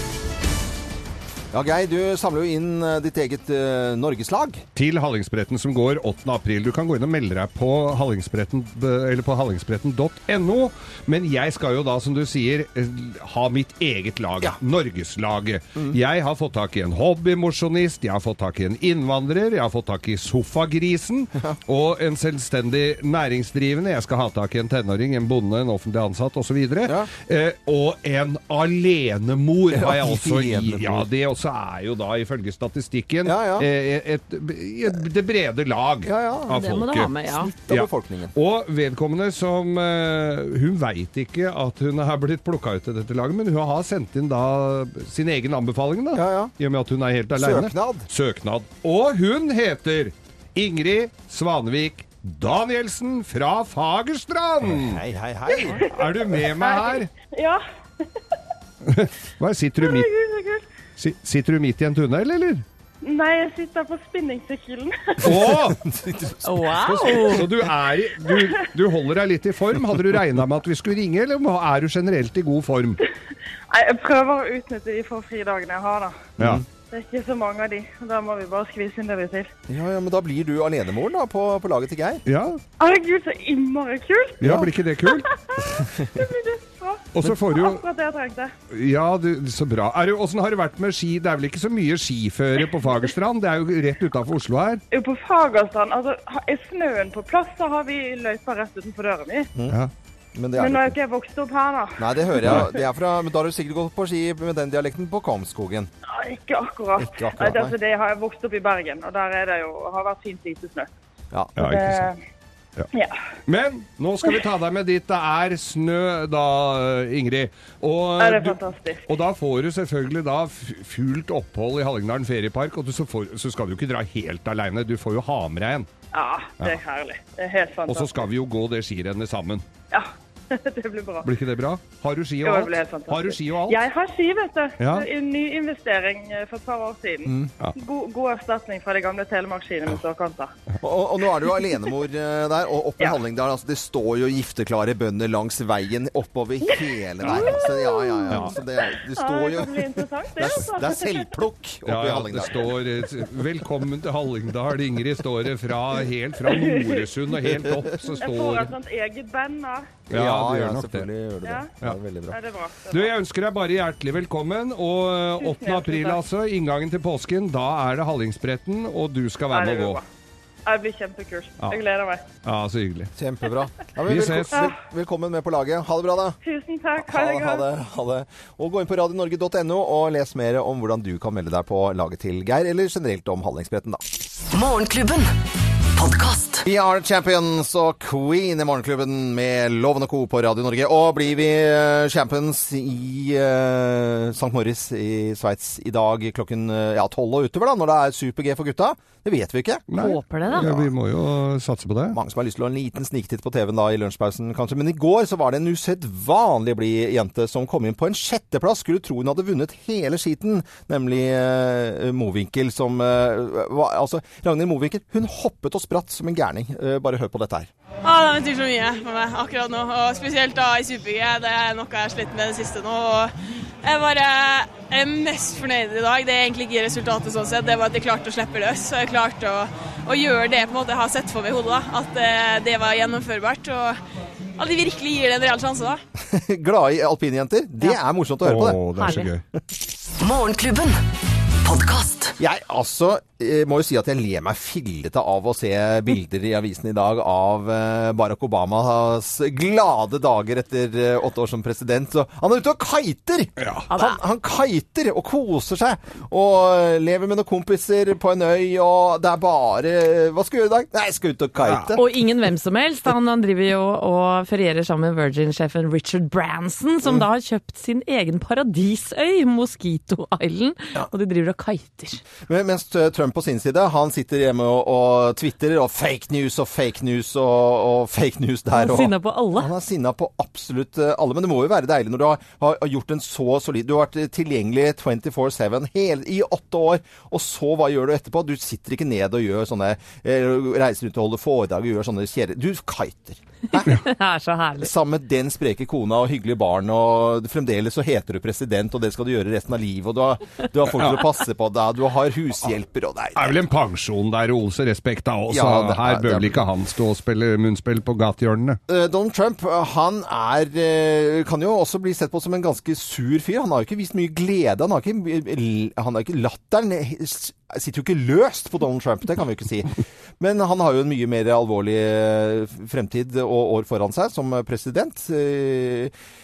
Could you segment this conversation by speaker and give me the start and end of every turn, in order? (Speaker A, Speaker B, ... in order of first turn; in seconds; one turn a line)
Speaker A: 1.5-4.6
Speaker B: 4.8-37.1
Speaker A: 26.9-27.1
Speaker A: 29.7-31.1
Speaker A: 33.2-33.7
Speaker A: 36.0-36.7
Speaker C: 36.5-37.5
Speaker A: 37.3-38.3
Speaker B: 37.7-55.0
Speaker A: 46.1-46.5
Speaker A: 47.4-48.1
Speaker A: 54.6-55.9
Speaker B: 55.7-57.1
Speaker D: 56.4-57.6
Speaker B: 58.8-60.1
Speaker D: 59.8-60.6
Speaker B: 61.0-62.6
Speaker D: 63.0-65.3
Speaker B: 65.2-65.8
Speaker A: 65.2-67.5
Speaker C: 66.4-67.4
Speaker B: 66.9-73.0
Speaker D: 73.7-76.3
Speaker A: 76.4-76.6
Speaker B: 76.4-76.6
Speaker D: 76.9-79.5
Speaker A: 79.7-82.2
Speaker B: 82.3-82.6
Speaker D: 82.8-88.5
Speaker A: 84.4-84.7
Speaker B: 84.4-85.3
Speaker B: 87.1-87.8
Speaker B: 88.7-94.8
Speaker D: 94.9-99.5
Speaker A: 100.3-101.0
Speaker D: 100.6-102.6
Speaker A: 102.0-105.9
Speaker D: 106.1-110.9
Speaker A: 107.0-107.8
Speaker A: 111.3-111.6
Speaker B: 111.6-112.1
Speaker D: 111.6-112.2
Speaker B: 113.5-125.9
Speaker D: 118.2-119.0
Speaker D: 126.1-128.2
Speaker B: 127.9-129.6
Speaker D: 129.9-131.3
Speaker B: 131.2-133.8
Speaker D: 132.4-140.5
Speaker B: 134.8-135.1
Speaker A: 137.2-137.5
Speaker A: 140.8-152.7
Speaker B: 147.2-147.6
Speaker D: 147.4-148.4
Speaker B: 148.3-148.6
Speaker D: 148.9-151.3
Speaker B: 151.9-158.7
Speaker D: 156.5-157.0
Speaker D: 158.2-160.0
Speaker B: 160.1-161.1
Speaker A: 160.1-162.4
Speaker D: 161.4-161.7
Speaker D: 162.3-163.1
Speaker B: 162.9-170.0
Speaker D: 165.4-166.2
Speaker D: 169.5-170.0
Speaker D: 170.7-172.2
Speaker B: 172.4-173.1
Speaker A: 173.2-176.4
Speaker B: 174.1-174.7
Speaker D: 176.4-177.6
Speaker A: 177.0-184.0
Speaker E: 184.5-185.3
Speaker E: 185.9-186.6
Speaker A: 186.6-199.8
Speaker B: 199.9-202.2
Speaker C: 199.9-200.7
Speaker A: 200.5-200.9
Speaker A: 202.1-217.7
Speaker F: 218.0-234.0
Speaker F: 234.6-236.0
Speaker A: 236.2-239.2
Speaker B: 238.4-239.4
Speaker C: 239.0-239.3
Speaker E: 240.2-241.0
Speaker E: 241.6-242.4
Speaker A: 242.4-262.0
Speaker B: 253.6-253.9
Speaker C: 253.9-254.2
Speaker B: 261.6-261.9
Speaker C: 262.0-272.2
Speaker A: 272.4-294.0
Speaker C: 278.7-279.7
Speaker C: 293.8-294.9
Speaker A: 294.8-303.7
Speaker B: 300.9-301.3
Speaker B: 303.4-308.8
Speaker A: 305.5-306.6
Speaker A: 308.9-326.1